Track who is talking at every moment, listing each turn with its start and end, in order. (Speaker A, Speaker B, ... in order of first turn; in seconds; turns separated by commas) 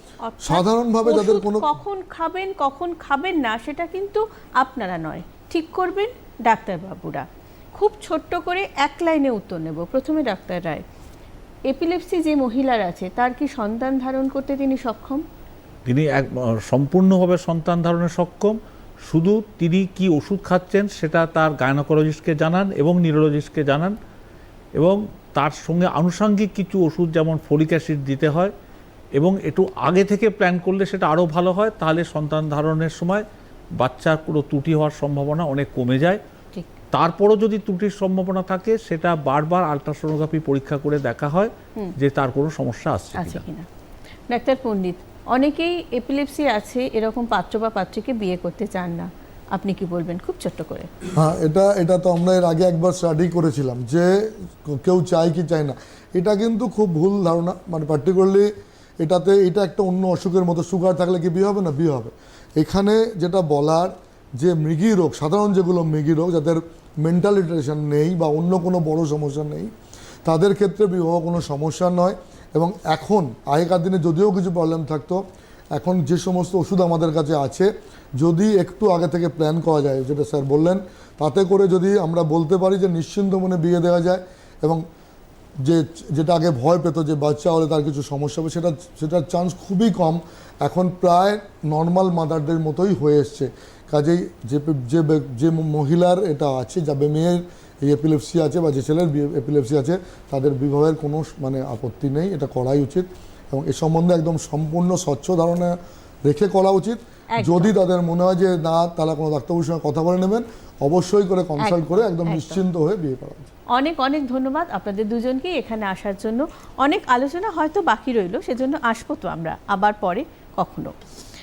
Speaker A: 0.2-7.2, Speaker B: 0.4-1.7, Speaker A: 7.8-10.8, Speaker A: 11.7-15.2, Speaker C: 15.8-23.9, Speaker C: 24.8-28.5, Speaker C: 29.1-33.2, Speaker C: 33.8-36.2, Speaker C: 36.9-43.4, Speaker A: 43.1-43.7, Speaker A: 44.3-50.9, Speaker B: 51.1-54.1, Speaker B: 54.6-58.5, Speaker B: 59.0-69.7, Speaker B: 70.2-75.2, Speaker B: 75.7-84.8, Speaker B: 85.6-113.5, Speaker A: 107.3-107.7, Speaker A: 111.6-112.6, Speaker A: 113.7-120.9